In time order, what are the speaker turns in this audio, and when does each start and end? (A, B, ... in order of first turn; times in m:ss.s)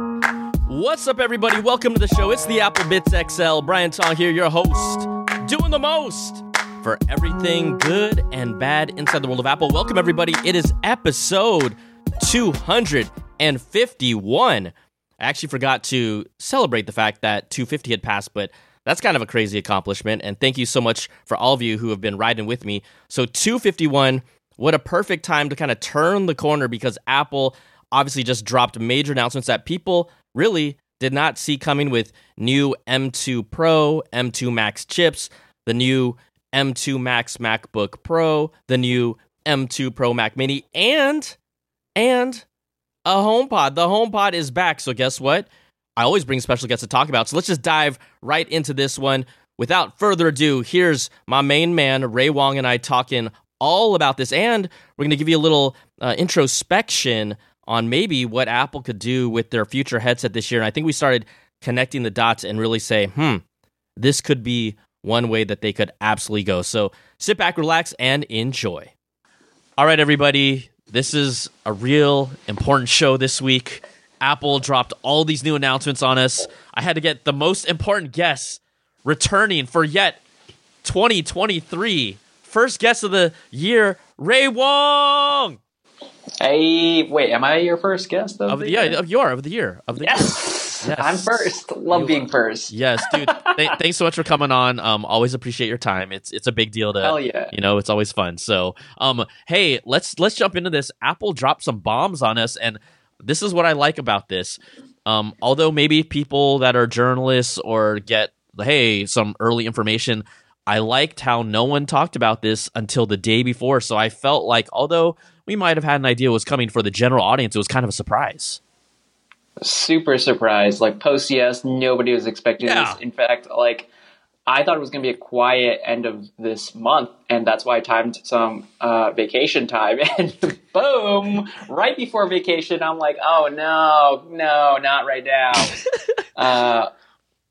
0:00.7-0:41.4 A
0:41.9-0:42.4 A
0:43.0-1:03.4 A
1:04.0-1:08.9 A
1:09.8-1:20.2 A
1:20.8-1:25.6 A
1:26.4-1:29.0 B
1:28.5-1:58.6 A
1:30.0-1:33.7 B
1:37.0-1:37.5 B
1:59.6-2:03.9 B
2:02.6-2:03.0 A
2:04.5-2:15.8 B
2:16.3-2:16.9 B